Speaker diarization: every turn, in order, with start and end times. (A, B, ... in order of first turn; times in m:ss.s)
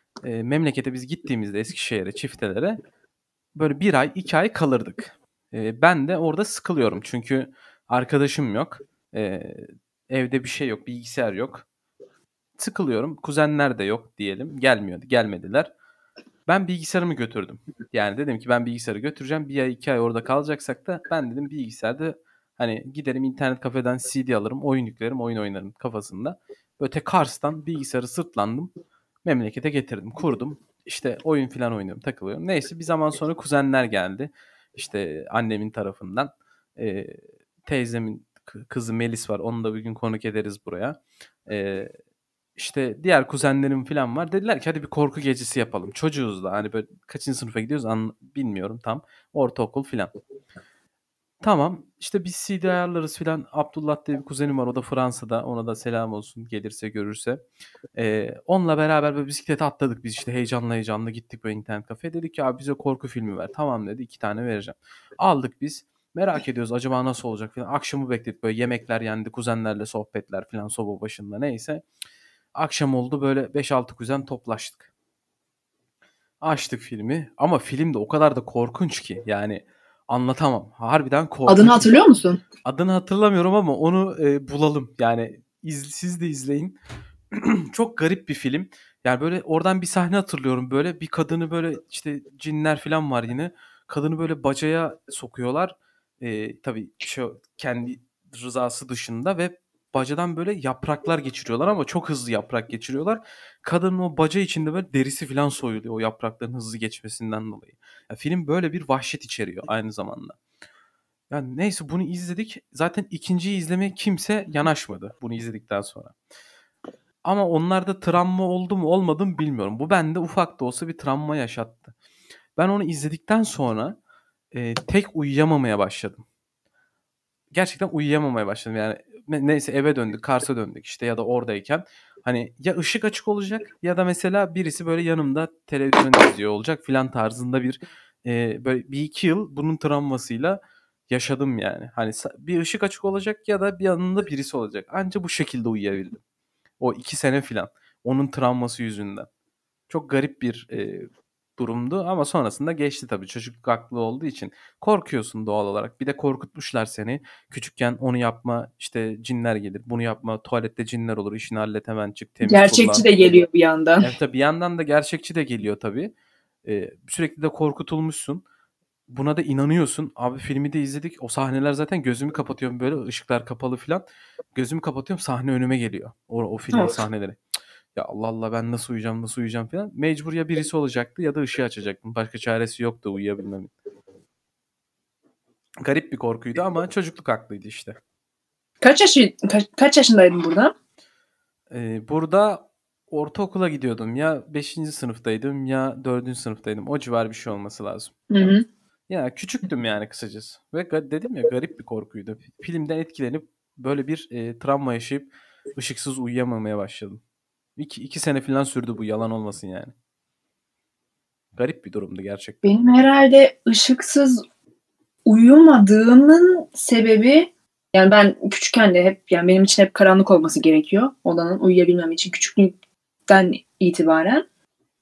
0:00.2-0:02.8 A
0:03.6-0:11.6 A
0:12.6-0:15.7 A
0:16.5-0:28.7 A
0:29.2-0:41.9 A
0:42.6-0:50.1 A
0:51.4-0:57.4 A
0:58.0-1:11.8 A
1:12.6-1:14.9 A
1:16.4-1:21.9 A
1:21.5-1:22.4 B
1:22.6-1:26.8 A
1:27.3-1:50.4 A
1:51.3-1:56.1 A
1:57.2-2:01.9 A
2:02.6-2:04.0 A
2:04.5-2:06.2 A
2:07.5-2:26.2 A
2:26.8-2:29.3 A
2:29.9-2:43.1 A
2:42.4-2:44.1 B
2:44.0-2:46.1 A
2:46.6-2:48.4 A
2:49.1-2:54.0 A
2:54.6-2:57.4 A
2:56.7-2:57.0 B
2:58.0-3:03.7 A
3:05.8-3:08.0 A
3:08.8-3:10.7 B
3:11.7-3:18.1 A
3:18.3-3:18.6 B
3:19.1-3:27.2 A
3:27.8-3:29.9 A
3:31.6-3:32.6 A
3:32.6-3:34.4 B
3:35.2-3:42.7 B
3:43.3-3:44.4 B